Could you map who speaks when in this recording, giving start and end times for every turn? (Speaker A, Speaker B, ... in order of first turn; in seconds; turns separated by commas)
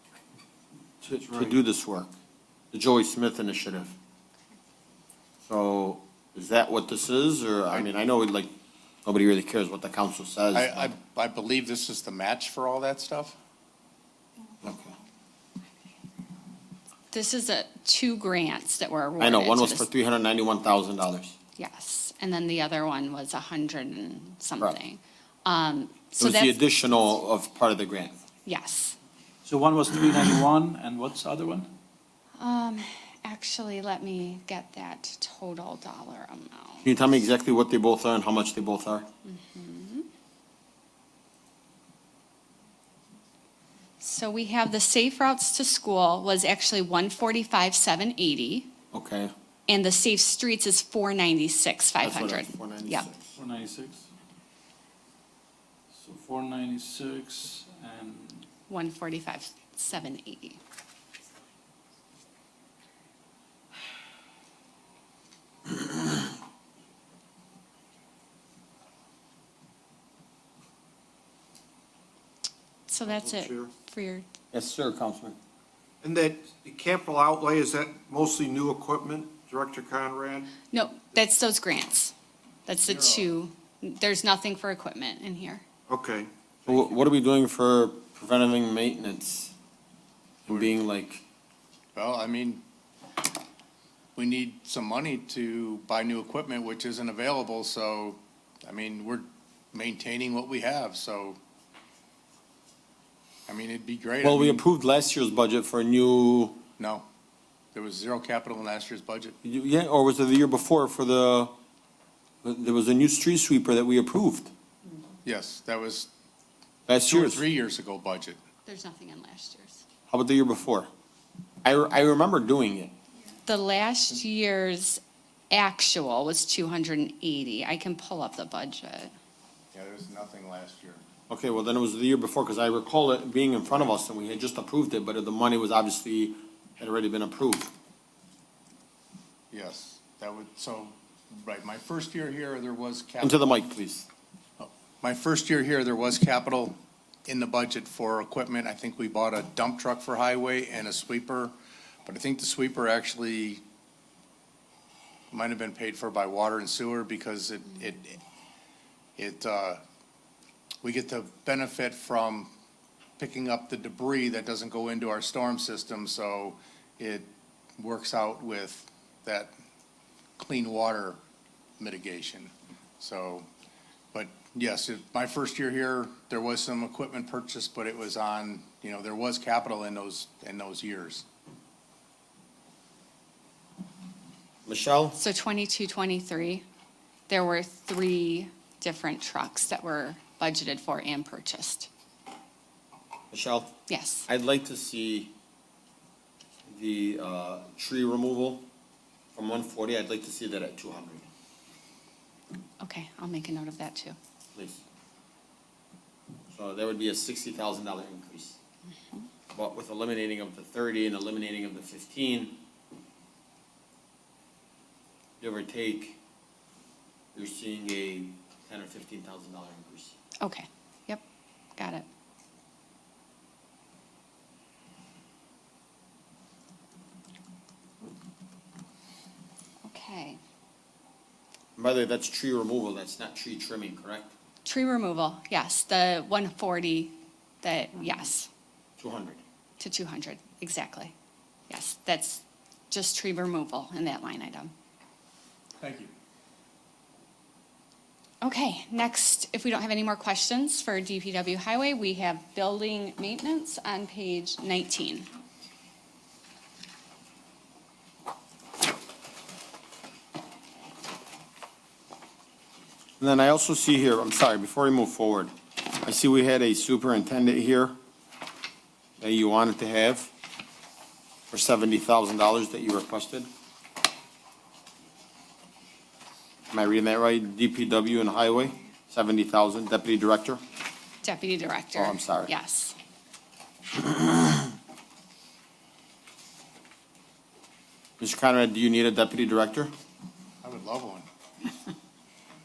Speaker A: 1.0-1.6, Speaker B: 1.3-2.1, Speaker B: 2.7-3.9, Speaker B: 5.4-8.5, Speaker B: 9.0-10.9, Speaker C: 10.5-13.3, Speaker B: 14.6-14.9, Speaker D: 17.1-19.9, Speaker B: 19.2-21.3, Speaker D: 21.6-26.6, Speaker B: 26.2-28.2, Speaker D: 28.4-28.9, Speaker E: 29.4-31.7, Speaker D: 32.4-36.9, Speaker B: 36.8-39.1, Speaker D: 39.2-40.1, Speaker D: 44.0-48.7, Speaker B: 48.9-49.3, Speaker D: 49.7-53.1, Speaker B: 52.0-53.4, Speaker E: 53.4-54.1, Speaker E: 55.9-58.5, Speaker D: 58.7-60.6, Speaker D: 72.9-74.2, Speaker A: 73.0-73.7, Speaker B: 74.5-75.4, Speaker A: 76.0-80.5, Speaker D: 80.7-82.1, Speaker D: 82.7-85.6, Speaker C: 82.9-83.2, Speaker A: 85.9-87.0, Speaker B: 86.7-89.5, Speaker B: 90.5-91.2, Speaker C: 90.5-90.7, Speaker C: 91.9-92.6, Speaker C: 94.2-101.4, Speaker C: 103.5-104.6, Speaker B: 104.2-106.6, Speaker C: 106.8-107.0, Speaker C: 107.7-109.3, Speaker B: 109.4-111.5, Speaker B: 112.4-114.5, Speaker C: 115.2-116.1, Speaker B: 116.9-117.4, Speaker C: 117.0-118.4, Speaker D: 118.7-119.8, Speaker B: 120.1-120.9, Speaker B: 121.6-122.9, Speaker D: 123.5-125.0, Speaker D: 125.5-129.1, Speaker C: 129.7-131.0, Speaker B: 131.3-137.7, Speaker C: 139.5-143.4, Speaker B: 143.2-144.1, Speaker C: 144.6-151.5, Speaker C: 152.1-153.6, Speaker C: 155.3-158.2, Speaker C: 159.2-159.8, Speaker C: 160.8-162.5, Speaker C: 163.2-169.5, Speaker C: 170.4-171.2, Speaker C: 171.8-173.5, Speaker C: 174.1-181.2, Speaker B: 184.7-185.2, Speaker D: 185.2-186.6, Speaker D: 187.3-191.9, Speaker B: 193.3-193.7, Speaker D: 193.9-194.3, Speaker B: 194.3-195.3, Speaker B: 196.7-198.7, Speaker B: 199.3-201.2, Speaker D: 202.8-204.2, Speaker B: 204.5-204.8, Speaker B: 206.5-208.6, Speaker B: 209.5-212.6, Speaker B: 215.4-216.2, Speaker B: 217.3-220.2, Speaker D: 220.4-221.2, Speaker D: 221.8-222.1, Speaker D: 229.8-230.4, Speaker B: 231.8-234.3, Speaker D: 234.6-238.5, Speaker B: 239.0-239.4, Speaker D: 239.8-241.1, Speaker D: 241.7-244.7, Speaker C: 245.8-246.1, Speaker D: 248.4-255.3, Speaker B: 263.2-267.9, Speaker B: 269.2-270.3, Speaker B: 271.5-273.5, Speaker B: 276.7-280.6, Speaker D: 281.2-282.9, Speaker B: 281.9-282.5, Speaker B: 283.9-284.6, Speaker B: 288.2-289.9, Speaker C: 290.6-291.2